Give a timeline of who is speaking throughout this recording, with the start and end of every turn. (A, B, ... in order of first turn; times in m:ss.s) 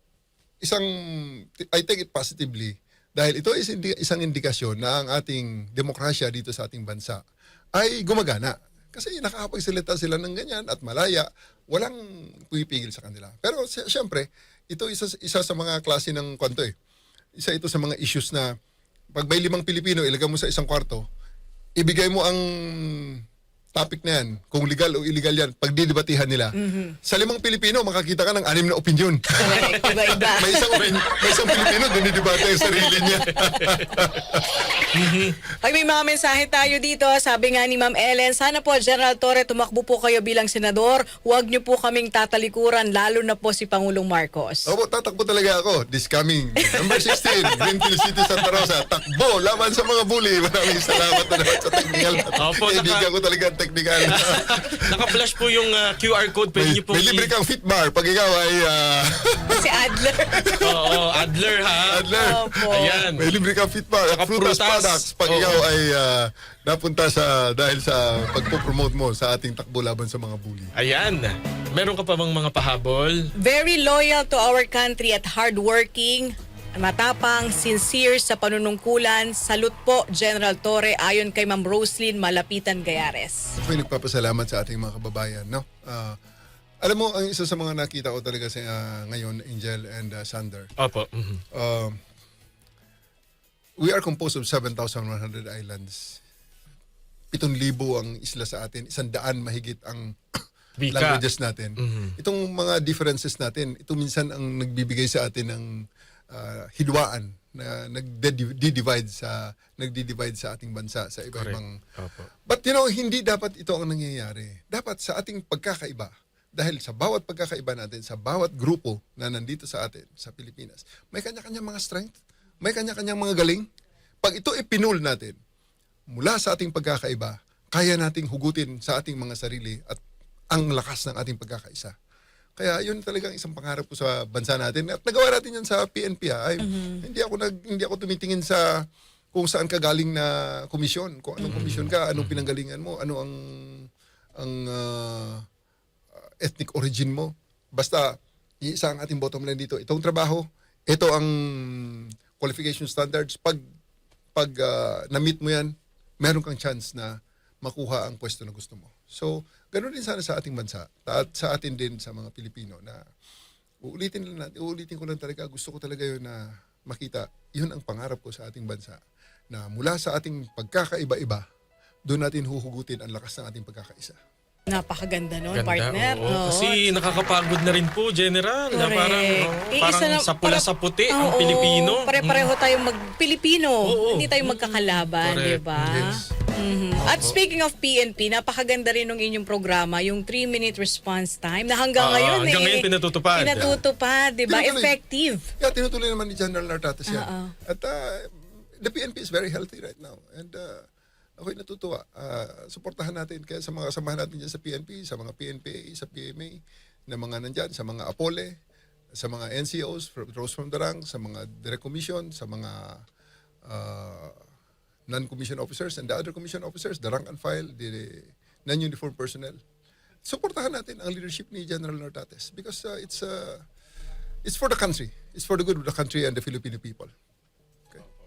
0:00.6-0:07.2 A
0:07.8-0:16.7 A
0:17.4-0:18.5 A
0:19.1-0:21.0 A
0:21.8-0:23.2 A
0:23.7-0:34.7 A
0:26.6-0:27.0 B
0:29.4-0:33.3 B
0:29.6-0:30.9 C
0:33.3-0:34.0 C
0:34.9-0:35.4 C
0:35.6-0:44.7 B
0:44.6-0:55.0 A
0:46.6-0:48.5 B
0:50.8-0:52.3 B
0:52.4-0:53.1 C
0:54.1-0:57.3 C
0:56.5-1:01.0 A
0:59.5-1:00.5 B
1:00.6-1:02.1 C
1:01.8-1:10.7 A
1:02.1-1:03.0 B
1:02.6-1:03.2 C
1:04.1-1:05.6 C
1:10.7-1:13.3 C
1:13.4-1:23.5 B
1:23.6-1:26.2 A
1:26.8-1:30.7 A
1:30.8-1:31.4 C
1:31.5-1:32.0 A
1:33.8-1:36.2 A
1:37.3-1:45.7 A
1:40.8-1:41.2 C
1:41.8-1:42.2 C
1:46.3-1:51.8 A
1:51.3-1:52.3 C
1:52.5-2:03.6 A
2:04.2-2:05.4 A
2:06.1-2:10.0 A
2:10.5-2:11.9 A
2:12.6-2:23.9 A
2:16.6-2:17.0 B
2:21.4-2:22.4 C
2:24.4-2:25.4 A
2:26.4-2:33.6 A
2:34.4-2:43.0 A
2:43.8-2:49.0 A
2:49.5-2:51.4 A
2:52.1-2:54.2 A
2:54.7-2:56.9 B
2:55.5-3:02.5 C
2:58.7-3:15.4 B
3:03.8-3:06.1 C
3:05.8-3:06.3 A
3:07.1-3:07.4 C
3:12.0-3:13.7 C
3:14.5-3:14.9 A
3:15.6-3:20.8 A
3:17.1-3:17.5 B
3:21.4-3:28.6 A
3:29.2-3:33.0 A
3:33.6-3:34.4 A
3:35.1-3:39.6 A
3:40.2-3:43.6 A
3:44.4-3:47.1 A